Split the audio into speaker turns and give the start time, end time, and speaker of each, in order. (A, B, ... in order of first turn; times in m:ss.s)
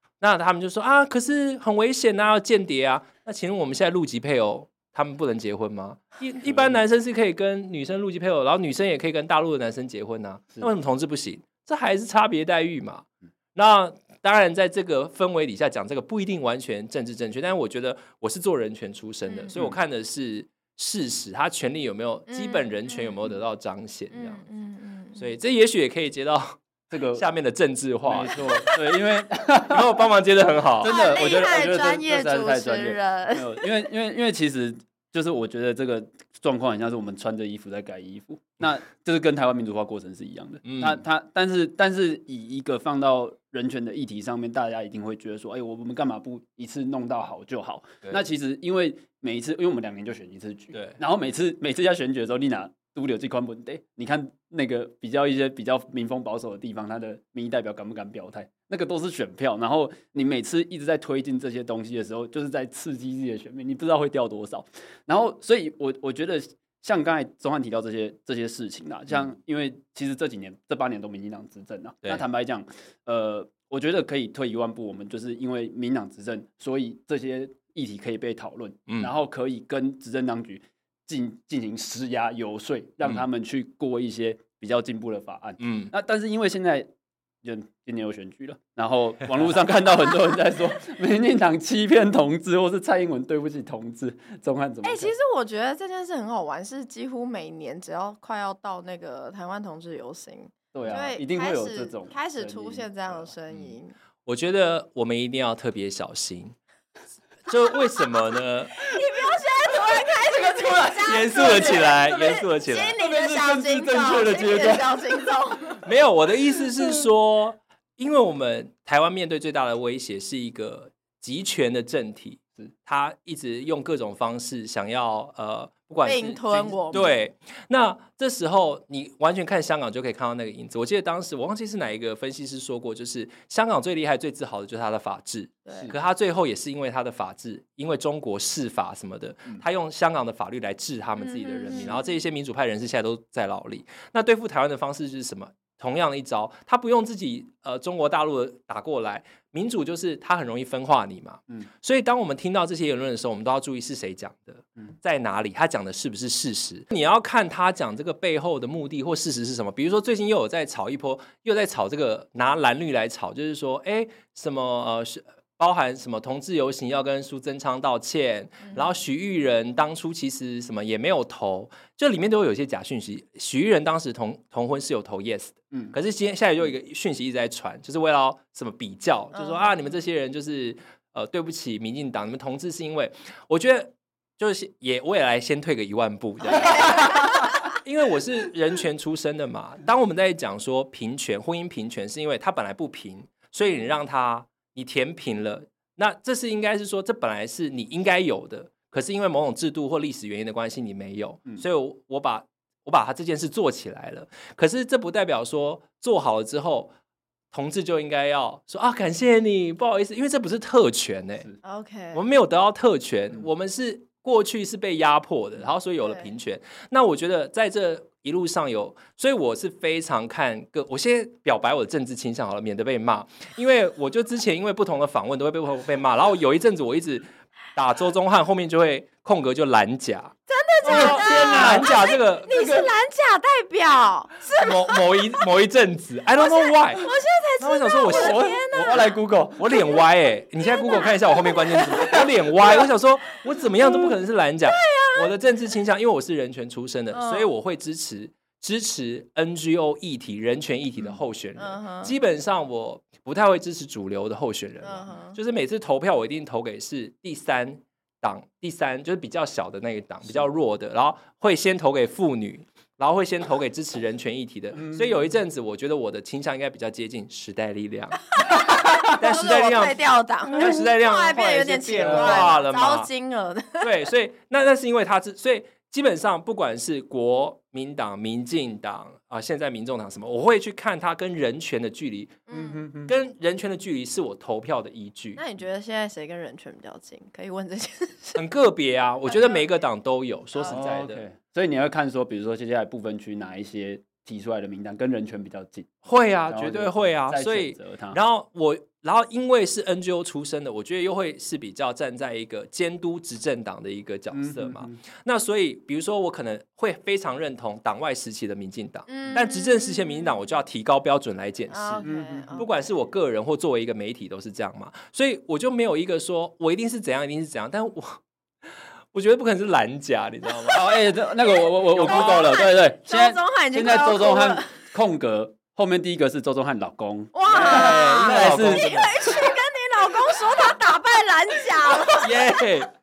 0:00.2-0:24.4 A
0:06.5-0:06.8 B
0:19.2-0:19.5 C
0:22.3-0:23.2 C
0:24.1-0:25.3 C
0:25.2-0:26.6 A
0:26.9-0:27.3 B
0:27.1-0:28.7 A
0:28.0-0:30.1 B
0:28.3-0:28.8 C
0:29.6-0:30.9 A
0:30.8-1:26.9 B
0:30.8-0:33.8 C
0:40.6-0:41.0 A
0:50.7-0:51.0 A
1:25.6-1:25.9 A
1:27.4-1:35.1 B
1:34.8-1:43.9 C
1:40.7-1:43.3 B
1:44.2-1:46.6 A
1:47.4-1:48.7 A
1:48.8-1:55.8 C
1:49.7-1:52.1 B
1:51.0-1:53.0 A
1:53.0-1:55.3 B
1:55.8-3:26.9 A
2:06.0-2:07.1 C
2:15.6-2:15.9 C
2:21.2-2:22.1 C
2:59.3-2:59.9 C
3:06.5-3:07.5 C
3:27.5-3:31.5 A
3:31.6-3:32.2 C
3:32.1-3:50.3 A
3:36.0-3:36.3 C
3:50.5-3:55.4 C
3:50.8-3:52.9 B
3:50.8-3:52.6 A
3:54.5-3:57.1 A
3:56.4-3:59.1 C
3:57.6-3:59.0 A
3:58.0-3:59.8 B
3:59.6-4:30.0 A
4:00.6-4:02.8 C
4:03.8-4:04.1 C
4:04.6-4:05.3 C
4:07.1-4:07.5 C
4:11.6-4:12.1 C
4:14.8-4:15.4 C
4:24.7-4:25.2 B
4:28.4-4:33.9 C
4:30.5-4:33.1 A
4:32.0-4:32.6 B
4:33.8-4:42.4 A
4:42.5-4:42.8 C
4:42.5-4:43.1 B
4:43.1-4:45.4 A
4:45.4-4:48.4 C
4:48.4-4:51.2 A
4:49.2-4:49.8 C
4:50.6-4:55.9 B
4:56.0-5:18.2 A
4:56.5-4:58.2 B
5:04.3-5:05.0 B
5:09.1-5:10.4 C
5:11.7-5:12.7 C
5:12.0-5:12.6 B
5:19.1-5:20.9 A
5:20.7-5:28.9 B
5:21.5-5:24.9 C
5:21.9-5:22.6 A
5:27.3-5:32.5 C
5:27.5-5:29.3 A
5:32.1-5:32.9 A